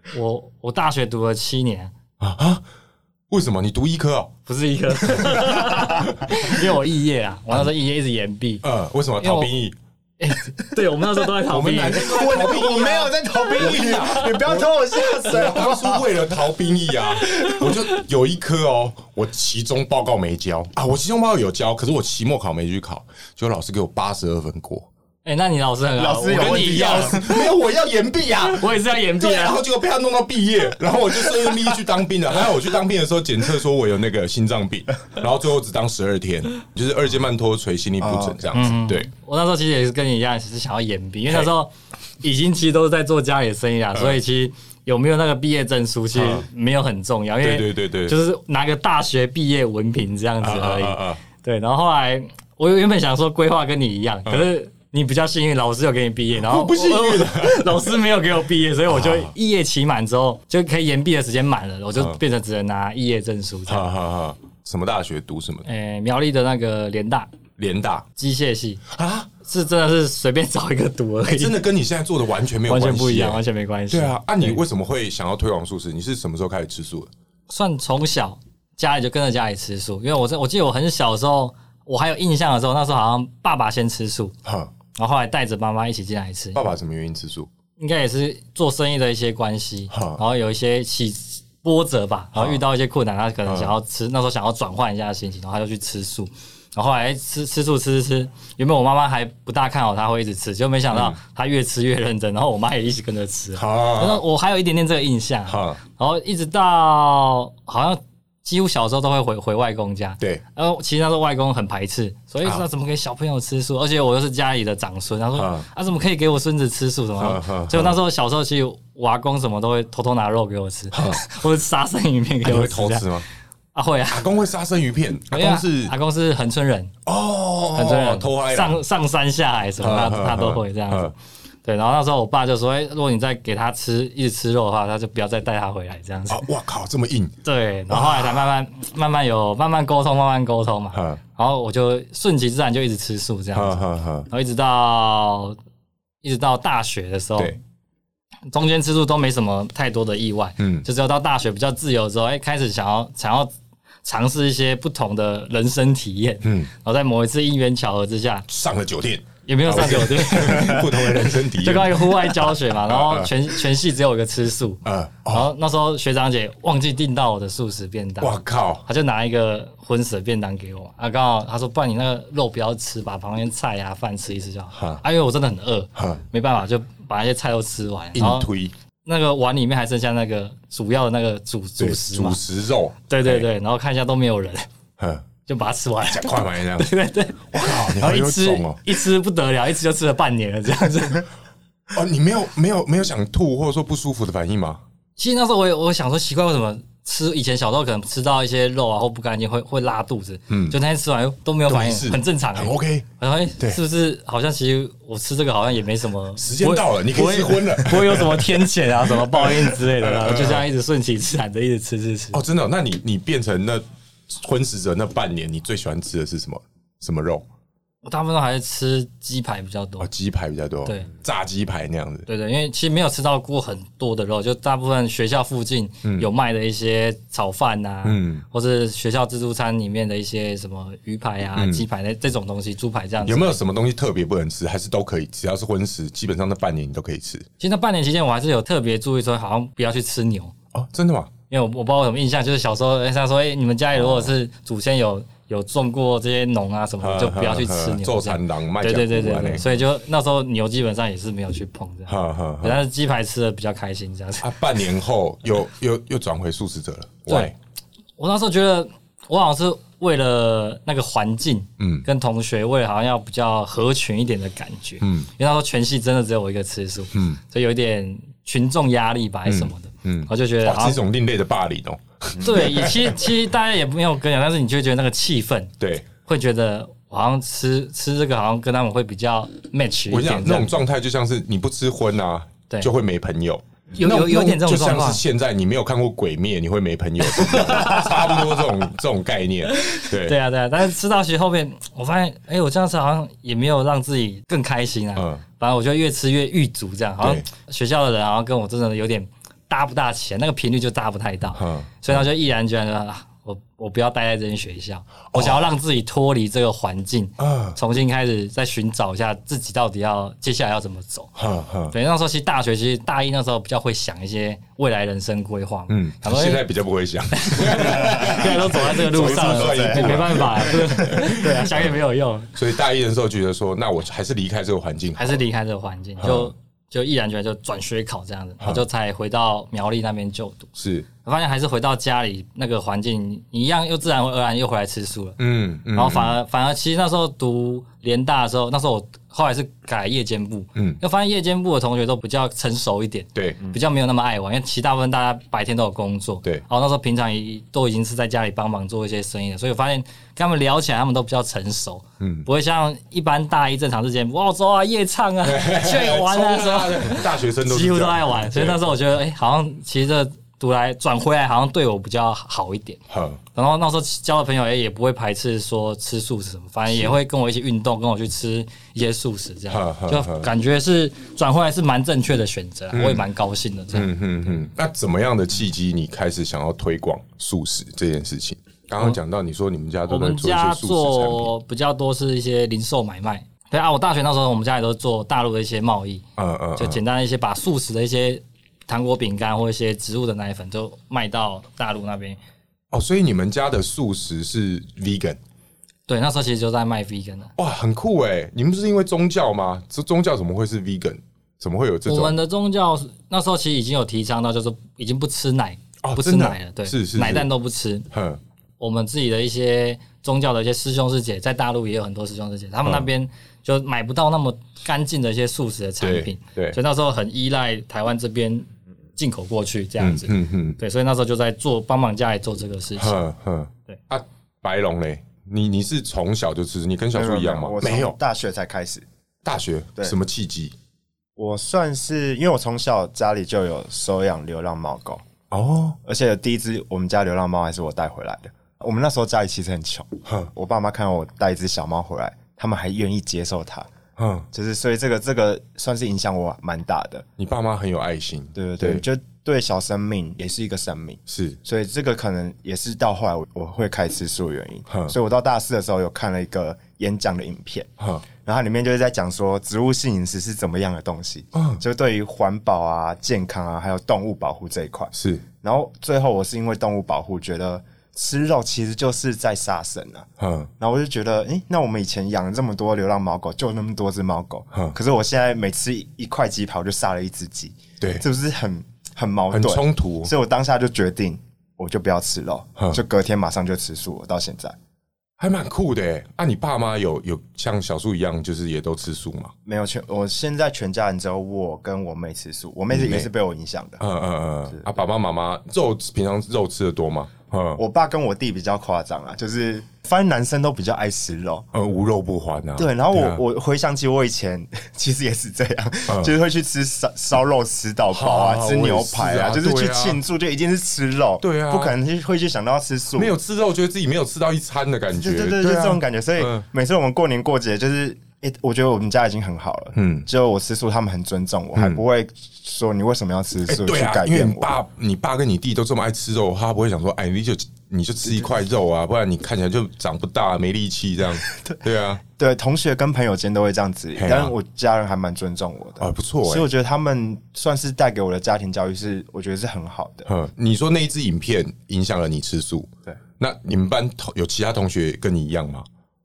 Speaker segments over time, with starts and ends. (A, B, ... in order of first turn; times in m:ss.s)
0:00.1-0:01.9 A
0:02.2-0:02.6 B
0:03.3-0:04.3 B
0:04.5-0:08.6 A
0:05.0-0:06.6 B
0:08.6-0:09.8 B
0:09.2-0:09.5 A
0:10.2-0:12.7 A
0:11.5-0:24.9 B
0:12.0-0:16.3 C
0:17.3-0:17.6 C
0:25.2-0:27.4 A
0:26.0-0:27.5 C
0:26.3-0:39.1 B
0:28.5-0:29.6 A
0:38.0-0:38.5 C
0:38.5-1:03.9 A
0:43.9-0:44.2 B
0:46.1-0:46.5 B
0:47.4-0:48.2 B
0:50.4-0:51.2 B
0:54.3-0:54.5 B
0:56.4-0:57.9 B
0:58.9-0:59.3 B
1:02.0-1:02.2 B
1:03.7-1:05.7 B
1:05.6-1:07.3 A
1:07.6-1:08.1 B
1:08.2-1:08.8 A
1:08.9-1:09.3 B
1:09.4-1:11.6 A
1:11.2-1:17.1 B
1:12.7-1:14.6 A
1:17.5-1:24.4 A
1:24.4-1:24.7 B
1:24.9-1:26.6 A
1:26.5-1:27.5 B
1:27.8-2:03.1 A
1:29.9-1:30.2 B
1:32.4-1:32.6 B
1:33.5-1:33.8 B
1:40.9-1:41.2 B
1:43.6-1:44.2 B
1:45.5-1:45.8 B
1:55.4-1:55.7 B
1:57.2-1:58.0 B
2:00.9-2:01.3 B
2:02.4-2:03.3 B
2:03.7-2:04.3 A
2:04.1-2:05.9 B
2:05.3-2:06.9 A
2:07.1-2:08.8 B
2:07.7-2:11.1 A
2:09.8-2:11.1 B
2:11.6-2:16.4 A
2:16.3-2:17.4 B
2:17.4-2:25.6 A
2:17.9-2:18.5 B
2:20.9-2:21.2 B
2:23.5-2:24.3 B
2:26.2-2:27.6 A
2:28.5-2:33.5 A
2:30.6-2:30.9 B
2:34.0-2:38.4 A
2:36.4-2:36.7 B
2:38.5-2:43.6 B
2:39.5-2:48.4 A
2:44.8-2:45.5 B
2:48.2-2:48.8 B
2:48.9-2:58.5 A
2:54.7-2:55.0 B
2:56.0-2:56.2 B
2:58.2-2:58.7 B
2:59.0-3:02.4 A
3:01.8-3:03.5 B
3:03.1-3:04.7 A
3:05.0-3:05.2 B
3:05.5-3:11.3 A
3:06.1-3:06.9 B
3:07.5-3:08.8 B
3:11.9-3:14.8 B
3:15.2-3:32.4 A
3:20.5-3:20.8 B
3:21.7-3:23.1 B
3:26.4-3:30.7 B
3:32.3-3:37.4 B
3:38.0-3:40.1 A
3:40.0-3:42.3 B
3:42.3-3:53.6 A
3:48.0-3:48.4 B
3:51.6-3:51.9 B
3:53.2-3:57.5 B
3:57.6-4:00.5 A
4:00.7-4:01.3 B
4:01.5-4:14.5 A
4:04.0-4:04.3 B
4:07.0-4:09.7 B
4:12.1-4:12.8 B
4:14.4-4:17.6 B
4:17.3-4:17.5 A
4:18.2-4:31.0 A
4:21.8-4:22.1 B
4:25.0-4:25.3 B
4:27.1-4:27.4 B
4:29.5-4:33.3 B
4:32.4-4:32.6 C
4:32.4-4:35.7 A
4:35.8-4:36.1 B
4:36.2-4:40.7 A
4:40.1-4:50.4 B
4:44.0-4:45.2 A
4:47.2-4:48.7 A
4:49.7-5:11.3 A
4:55.2-4:55.4 B
4:57.2-4:57.4 B
5:01.6-5:02.3 B
5:05.3-5:05.7 B
5:07.4-5:07.8 B
5:11.4-5:12.0 B
5:11.9-5:16.6 A
5:15.9-5:22.0 B
5:17.3-5:22.5 A
5:18.0-5:21.4 C
5:22.6-5:25.4 B
5:25.2-5:30.7 A
5:26.2-5:26.5 B
5:30.8-5:31.1 B
5:31.2-5:35.4 A
5:35.4-5:36.4 B
5:35.9-6:03.0 A
5:43.4-5:43.6 B
5:52.2-5:52.5 B
5:55.4-5:58.8 B
6:03.1-6:03.4 B
6:03.6-6:14.1 A
6:06.9-6:07.2 B
6:09.7-6:10.5 B
6:12.9-6:13.3 B
6:13.9-6:21.5 B
6:20.1-6:26.2 A
6:26.4-6:27.0 B
6:26.8-6:32.4 A
6:32.9-6:35.4 B
6:36.1-6:37.5 A
6:37.6-6:42.4 B
6:42.1-6:48.1 A
6:46.0-6:47.5 B
6:48.1-6:48.4 B
6:48.8-7:03.2 A
6:56.0-6:56.8 B
7:00.0-7:00.8 B
7:03.0-7:08.2 B
7:07.1-7:09.1 C
7:09.4-7:10.7 B
7:11.4-7:15.2 C
7:15.5-7:16.0 B
7:16.0-7:23.9 C
7:24.2-7:24.5 B
7:24.5-7:27.3 C
7:27.4-7:29.0 B
7:28.6-7:37.9 C
7:31.3-7:31.6 B
7:34.9-7:35.2 B
7:38.0-7:38.2 B
7:38.4-7:50.3 C
7:41.6-7:41.8 B
7:45.1-7:45.4 B
7:50.4-7:50.7 B
7:50.8-8:04.8 C
7:59.5-8:00.3 B
8:05.4-8:09.5 B
8:09.7-8:14.0 C
8:12.9-8:13.3 B
8:14.0-8:17.8 B
8:17.8-8:21.7 C
8:21.7-8:23.4 B
8:22.8-8:33.4 C
8:26.1-8:26.4 B
8:28.1-8:30.2 B
8:31.4-8:32.0 B
8:33.2-8:36.6 B
8:35.1-8:44.7 C
8:40.0-8:40.3 B
8:41.8-8:42.0 B
8:43.7-8:52.2 B
8:51.5-9:00.3 C
8:54.2-8:54.5 B
8:56.0-8:56.7 B
9:00.3-9:05.9 B